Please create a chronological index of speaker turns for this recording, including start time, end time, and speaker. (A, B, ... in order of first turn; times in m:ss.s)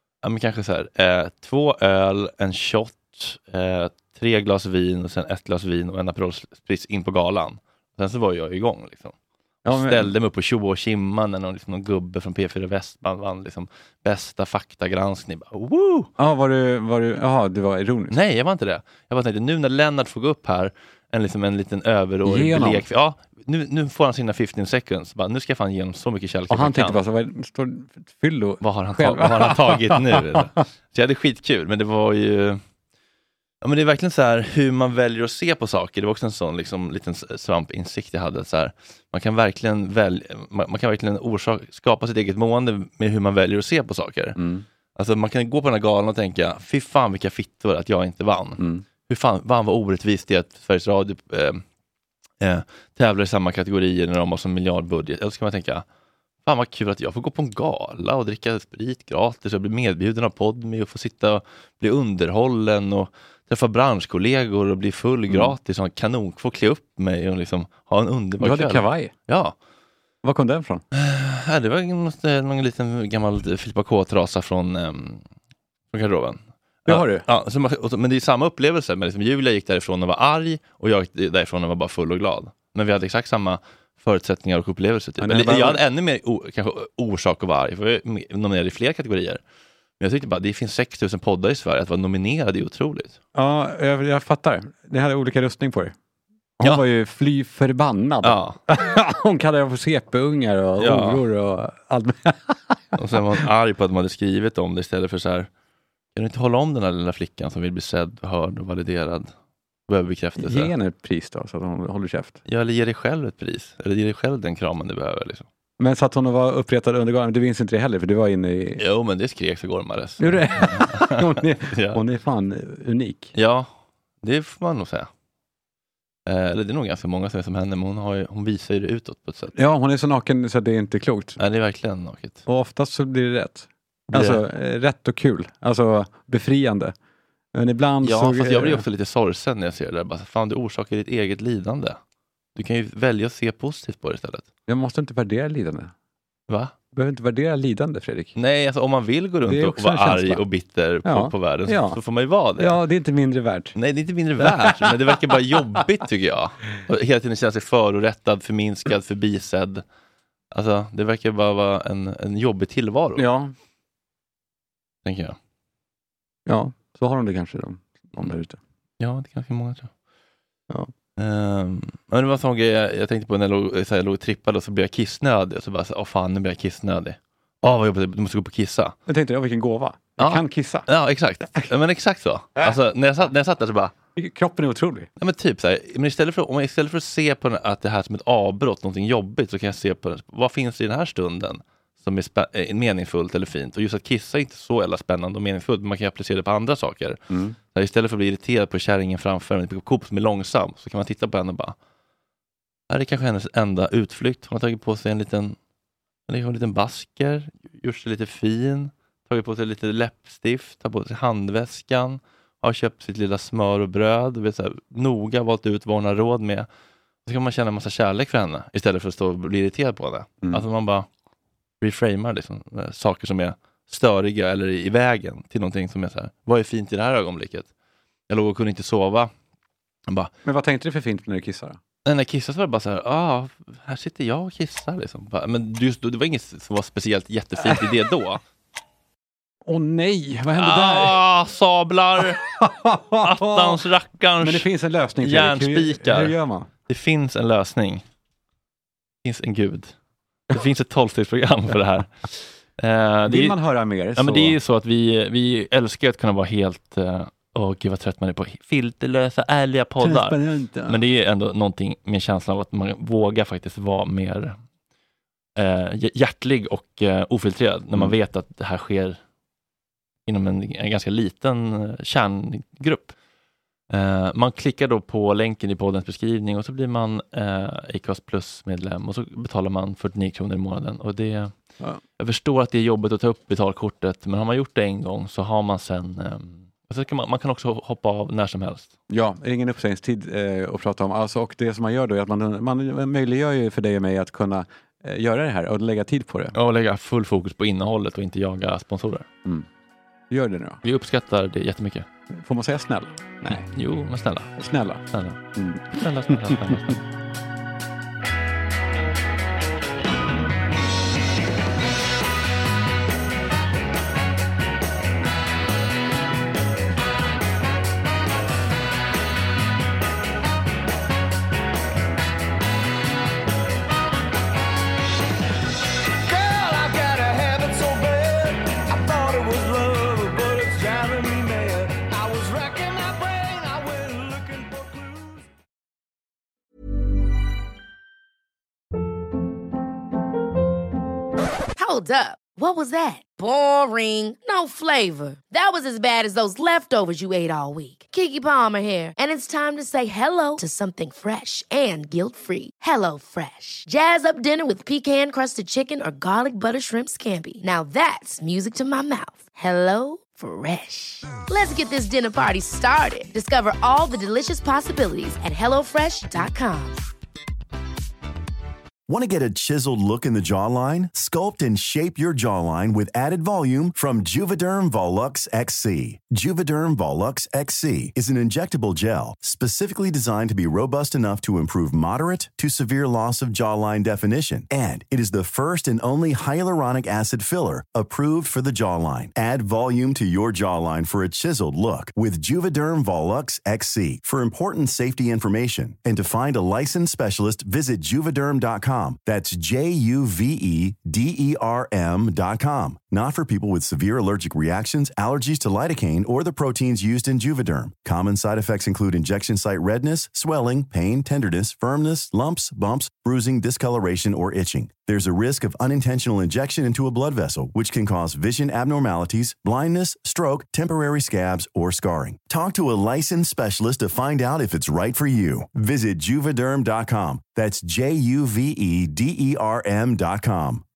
0:00.2-0:09.1 A
0:09.6-0:10.1 B
0:09.6-0:16.1 A
0:16.2-0:18.2 B
0:18.1-0:27.0 A
0:22.3-0:22.8 B
0:26.5-0:30.5 B
0:28.6-0:32.6 A
0:33.6-0:44.4 A
0:44.4-0:44.6 B
0:45.0-0:51.6 A
0:48.6-0:48.8 B
0:52.4-0:55.8 A
0:56.4-1:09.5 A
1:05.3-1:05.6 B
1:08.4-1:09.1 B
1:10.2-1:10.8 B
1:10.9-1:15.2 A
1:15.9-1:29.4 A
1:16.9-1:17.2 B
1:25.2-1:25.8 B
1:30.0-1:33.2 A
1:33.4-1:35.9 B
1:36.6-1:43.0 B
1:38.2-1:38.6 A
1:40.8-1:41.2 A
1:43.0-1:45.5 A
1:46.2-1:49.3 A
1:49.9-1:50.7 A
1:50.4-1:52.4 B
1:52.5-1:55.5 A
1:55.8-1:58.8 B
1:58.8-2:02.0 A
2:00.2-2:03.3 B
2:03.4-2:03.7 A
2:04.2-2:05.1 A
2:06.3-2:09.5 A
2:09.5-2:11.4 B
2:11.4-2:12.4 A
2:12.5-2:17.0 B
2:14.1-2:14.4 A
2:17.5-2:18.8 B
2:18.0-2:22.0 A
2:22.6-2:24.5 A
2:24.7-2:25.9 B
2:26.9-2:28.3 B
2:28.4-2:32.8 A
2:29.4-2:30.4 B
2:31.0-2:32.0 B
2:32.6-2:33.8 B
2:33.8-2:39.8 A
2:34.4-2:35.0 B
2:40.5-2:43.3 A
2:43.2-2:43.5 B
2:45.0-2:45.4 A
2:46.5-2:48.6 B
2:49.0-2:49.9 A
2:51.2-2:59.0 A
2:59.1-3:00.9 B
3:00.2-3:03.9 A
3:04.2-3:05.1 B
3:05.2-3:17.2 A
3:17.3-3:17.6 B
3:17.7-3:21.8 A
3:22.9-3:25.6 A
3:26.3-3:36.7 A
3:37.3-3:41.1 A
3:41.8-3:47.7 A
3:48.3-3:49.3 A
3:50.4-3:51.8 B
3:52.1-3:58.4 A
3:59.6-4:01.2 B
4:00.6-4:02.4 A
4:02.2-4:03.8 B
4:03.2-4:04.7 A
4:04.4-4:06.7 B
4:05.2-4:06.3 A
4:06.9-4:08.0 A
4:09.2-4:09.9 A
4:10.5-4:13.6 A
4:13.3-4:14.6 B
4:14.2-4:24.6 A
4:20.0-4:21.0 B
4:25.6-4:29.2 A
4:30.3-4:33.2 A
4:33.9-4:41.5 A
4:42.2-4:48.9 A
4:49.1-4:56.6 B
4:56.6-4:59.3 A
5:00.3-5:00.8 B
5:00.8-5:02.1 A
5:02.4-5:03.7 B
5:03.5-5:04.5 A
5:04.6-5:05.0 B
5:05.1-5:05.4 A
5:05.6-5:06.8 B
5:05.9-5:07.0 A
5:26.2-5:35.5 C
5:41.8-6:07.0 D
6:09.1-7:10.8 E